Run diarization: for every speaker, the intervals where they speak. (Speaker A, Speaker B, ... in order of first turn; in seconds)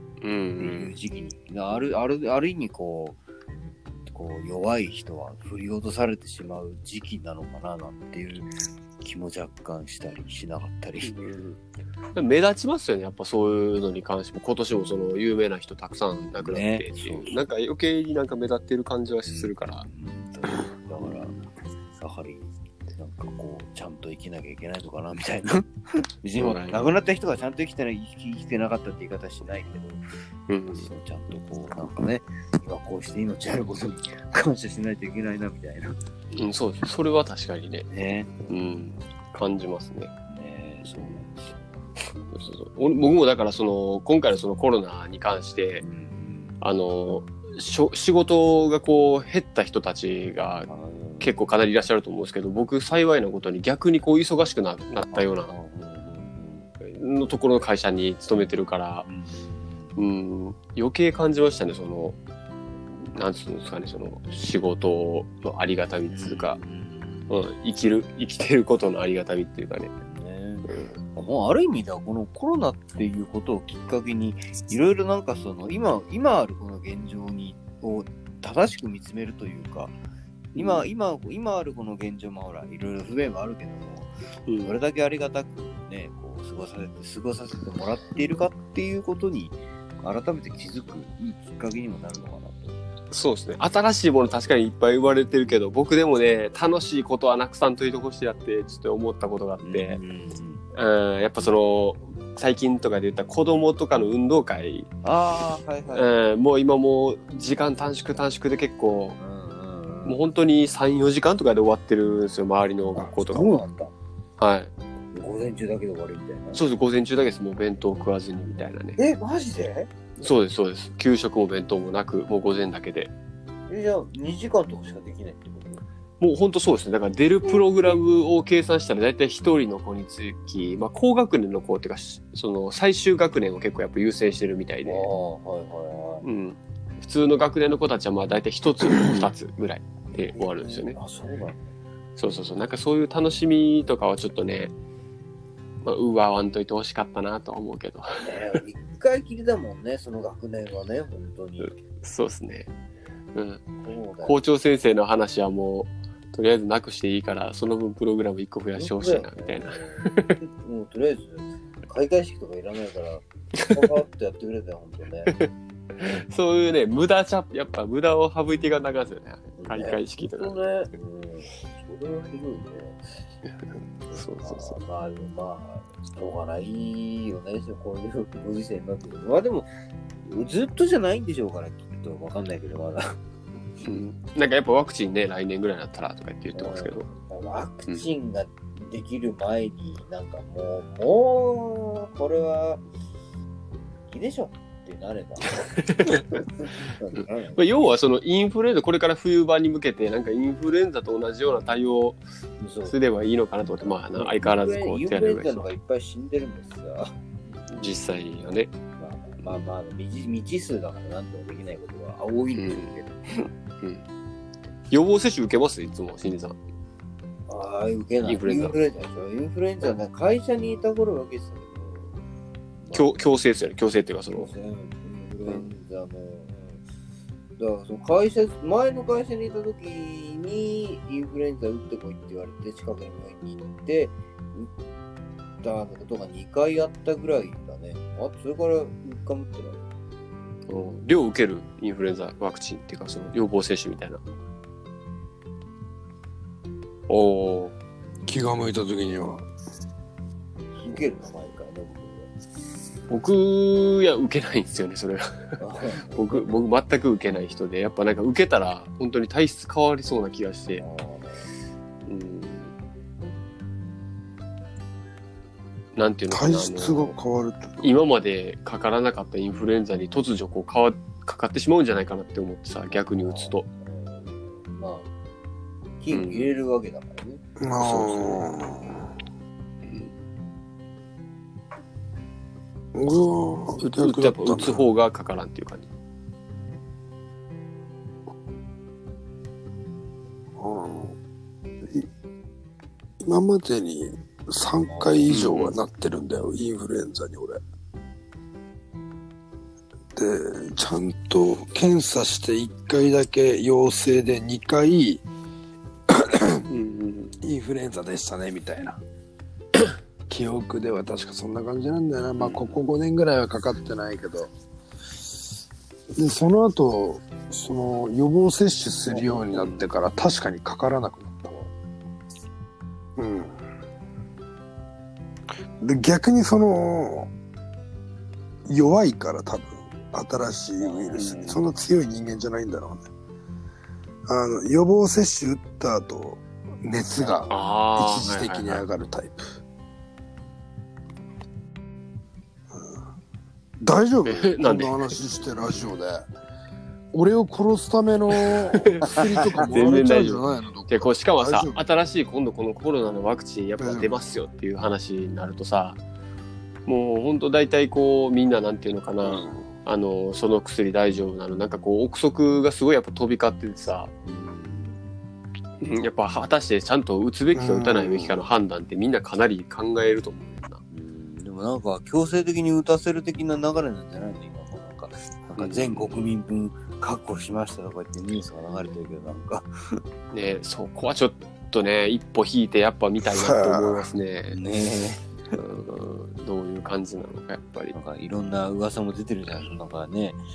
Speaker A: 0.2-0.9, 11.0-11.6, 12.1-19.9, 21.0-21.4, 26.4-26.8, 30.5-30.9, 36.3-37.9, 38.5-40.1, 42.3-45.8, 46.6-50.7, 51.2-55.5, 56.8-59.1, 60.0-62.1, 63.1-66.6, 67.3-69.9, 70.7-71.0, 80.6-80.9, 84.5-84.7, 93.1-100.0, 100.8-104.9, 105.9-109.2, 110.0-113.6, 114.4-114.7, 116.5-119.0, 120.2-123.1, 126.2-135.0, 136.2-141.0, 142.2-144.7, 145.8-148.6, 151.6-152.7, 153.3-153.6, 154.2-160.3, 163.5-163.8, 166.0-170.6, 174.1-174.8, 183.8-187.1, 195.8-196.4, 197.1-202.2, 202.9-205.7, 207.8-208.7, 212.5-213.0, 214.9-216.6, 218.2-218.7, 222.9-224.5, 225.5-225.7, 240.7-244.2, 247.1-247.8, 253.1-255.6, 256.1-260.8, 262.1-262.7, 265.9-267.1, 267.8-273.6, 276.1-276.5, 277.8-278.4, 283.8-285.9, 295.3-295.8, 306.7-307.3, 312.4-312.8, 319.5-319.9, 331.1-331.5, 337.5-338.8, 344.2-345.1, 348.4-356.0, 356.9-364.1, 365.8-370.8, 375.6-376.3, 380.3-384.6, 385.5-387.9
Speaker B: 0.6-3.2, 4.1-11.2, 16.4-17.3, 19.3-21.3, 21.9-30.0, 30.7-36.0, 37.9-38.5, 40.3-41.6, 45.8-46.6, 50.7-51.4, 55.1-56.7, 59.1-59.9, 66.1-67.4, 70.1-79.9, 80.5-92.8, 99.6-100.6, 105.0-106.1, 109.2-110.2, 112.9-113.9, 115.1-116.6, 119.0-119.9, 123.7-125.8, 134.8-136.2, 140.3-141.7, 148.2-151.7, 153.8-154.4, 158.8-165.4, 169.6-173.0, 174.1-179.7, 180.2-183.1, 186.5-192.8, 194.1-197.7, 202.6-202.9, 204.1-207.1, 209.0-213.4, 217.5-222.2, 222.8-223.1, 224.3-226.8, 227.6-234.7, 235.6-239.8, 250.7-252.3, 255.6-256.6, 260.8-261.5, 272.9-275.1, 276.0-277.4, 294.9-295.4, 330.8-331.6, 337.2-337.5, 364.2-365.1, 370.9-380.0, 384.5-385.2, 387.9-390.4
Speaker C: 248.2-249.4, 266.3-267.9, 277.6-279.1, 282.9-284.8, 290.6-291.1, 293.2-297.6, 300.1-305.2, 306.1-306.6, 307.4-309.0, 310.3-314.5, 316.1-321.7, 323.2-323.6, 325.8-327.3, 328.7-333.1, 334.3-339.5, 342.7-343.0, 343.8-346.3, 347.1-351.8, 353.8-354.2, 359.2-359.7, 367.5-368.4, 383.2-384.1